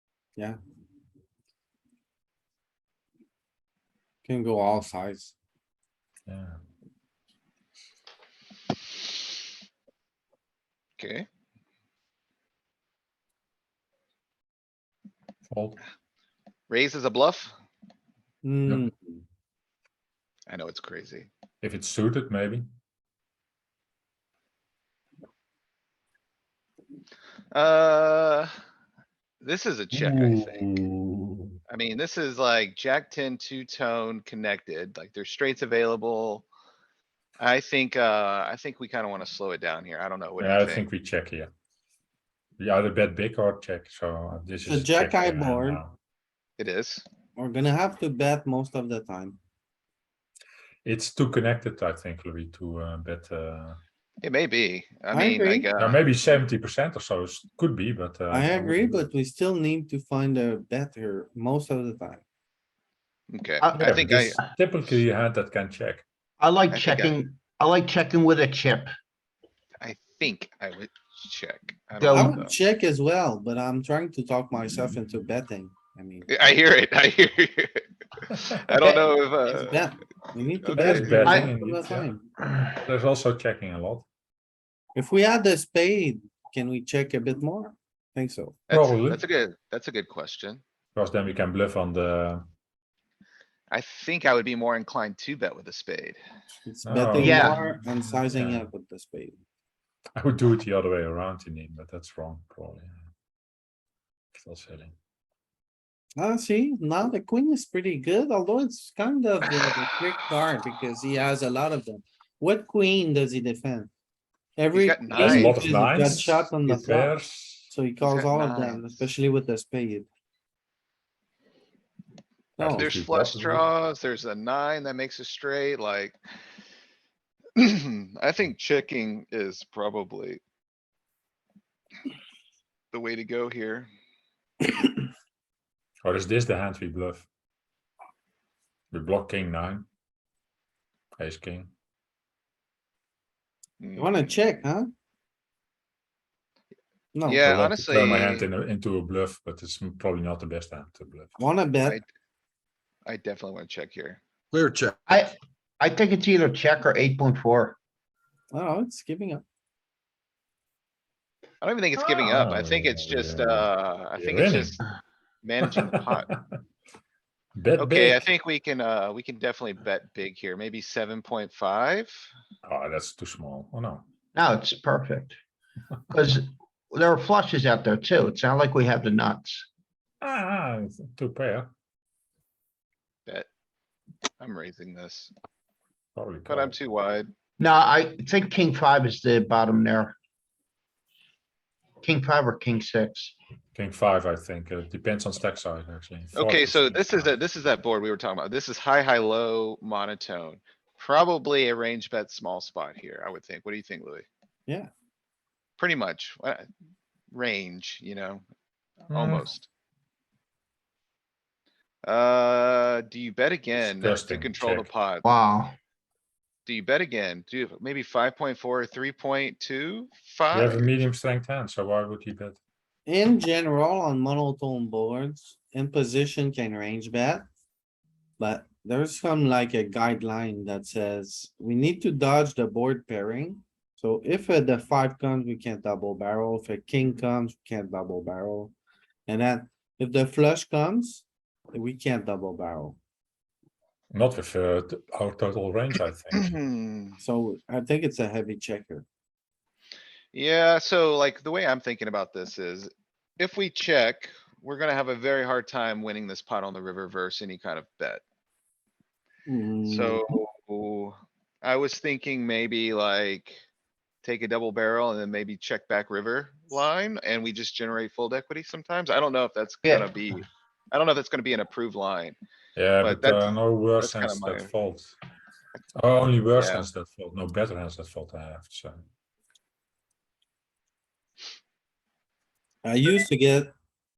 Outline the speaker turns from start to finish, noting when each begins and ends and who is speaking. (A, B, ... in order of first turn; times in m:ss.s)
0:04.2-0:05.3 A
0:06.3-0:06.6 B
0:11.0-0:11.3 C
0:15.5-0:15.8 B
0:16.7-0:17.5 C
0:18.4-0:19.2 A
0:20.5-0:21.3 C
0:21.6-0:22.7 B
0:27.5-0:28.5 C
0:29.4-0:30.7 C
0:30.0-0:31.5 B
0:31.7-0:36.4 C
0:37.4-0:40.8 C
0:40.4-0:41.5 B
0:42.6-0:45.9 B
0:44.6-0:45.8 A
0:46.6-0:47.0 C
0:47.4-0:49.4 A
0:50.8-0:53.8 B
0:54.2-0:56.1 C
0:55.1-0:55.7 A
0:55.8-0:59.0 B
0:58.3-1:02.2 A
1:03.3-1:04.4 C
1:03.6-1:04.3 D
1:03.8-1:06.0 B
1:06.4-1:08.9 D
1:06.7-1:07.2 C
1:09.8-1:12.6 C
1:12.0-1:12.4 D
1:12.1-1:16.3 A
1:16.3-1:19.8 C
1:19.4-1:22.3 A
1:20.6-1:21.1 C
1:20.7-1:24.0 B
1:21.0-1:21.5 D
1:24.9-1:28.6 A
1:28.7-1:30.6 C
1:28.7-1:29.2 B
1:31.0-1:32.4 B
1:33.7-1:36.2 C
1:36.6-1:39.4 A
1:36.8-1:38.6 B
1:37.2-1:37.6 D
1:40.2-1:42.9 B
1:44.4-1:44.9 B
1:46.2-1:53.9 A
1:54.6-1:57.1 A
1:54.7-1:55.7 C
1:55.1-1:57.7 B
1:57.7-2:00.1 A
1:58.0-1:59.0 C
2:02.6-2:02.9 A
2:02.6-2:03.6 B
2:02.7-2:06.2 C
2:07.6-2:10.4 C
2:12.9-2:13.9 C
2:16.0-2:17.2 B
2:18.9-2:19.8 B
2:21.2-2:21.7 B
2:23.8-2:24.4 C
2:24.0-2:24.9 A
2:27.1-2:27.5 A
2:27.2-2:28.5 C
2:27.5-2:31.3 B
2:31.4-2:32.0 A
2:33.0-2:34.2 C
2:34.5-2:35.2 A
2:35.1-2:37.8 D
2:38.5-2:39.4 A
2:41.6-2:44.8 C
2:42.0-2:44.7 B
2:45.4-2:46.3 C
2:45.7-2:46.3 B
2:47.6-2:48.2 B
2:47.8-2:52.3 C
2:52.6-2:54.0 B
2:54.3-2:55.4 D
2:56.1-2:59.6 D
3:00.2-3:01.7 B
3:04.4-3:05.3 C
3:06.2-3:06.7 B
3:06.5-3:07.3 C
3:07.6-3:10.1 D
3:12.0-3:13.3 D
3:13.7-3:17.3 B
3:16.3-3:24.2 C
3:25.8-3:26.6 C
3:27.3-3:28.4 C
3:29.1-3:29.6 C
3:29.1-3:29.4 B
3:32.0-3:35.2 C
3:33.9-3:34.9 B
3:35.2-3:35.8 D
3:36.6-3:41.0 C
3:40.5-3:42.6 B
3:43.0-3:47.4 A
3:48.4-3:58.7 A
3:59.3-4:03.0 A
4:04.1-4:06.6 B
4:06.3-4:07.2 C
4:07.2-4:09.0 A
4:10.3-4:18.2 C
4:19.5-4:20.2 A
4:19.8-4:23.6 C
4:24.2-4:32.4 C
4:29.8-4:30.2 D
4:32.8-4:35.1 B
4:33.0-4:34.7 C
4:36.0-4:39.0 B
4:36.6-4:36.9 C
4:42.8-4:43.7 A